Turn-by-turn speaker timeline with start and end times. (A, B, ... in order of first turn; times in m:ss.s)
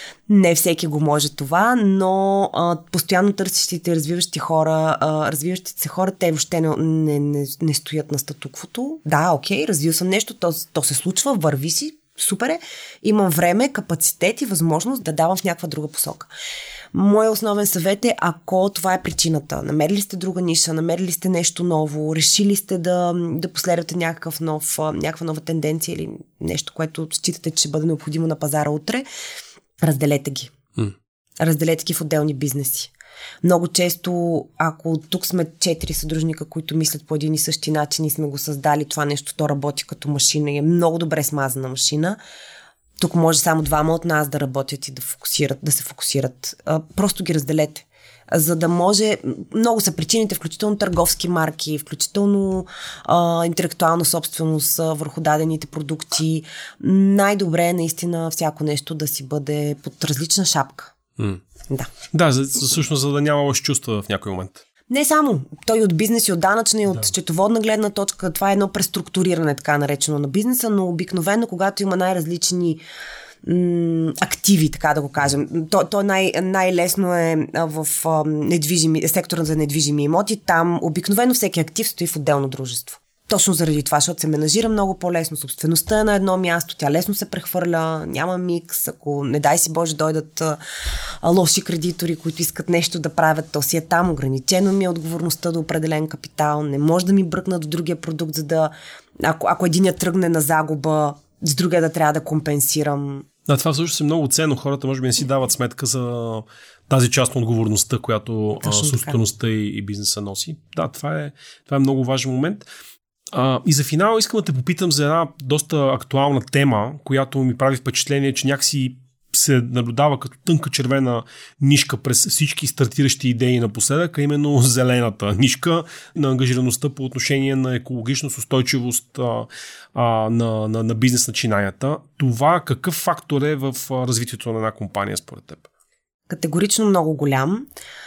0:00.3-0:16.3 A
0:16.9-0:29.1 A
0:29.8-0:30.5 A
0:31.4-0:32.9 A
0:33.4-0:42.2 A
0:43.0-1:00.9 A
1:02.1-1:04.6 B
1:04.9-1:12.8 A
1:13.4-1:30.6 A
1:31.2-1:43.3 A
1:43.5-1:52.7 B
1:48.6-1:49.2 A
1:53.3-2:15.7 B
2:16.3-2:17.7 A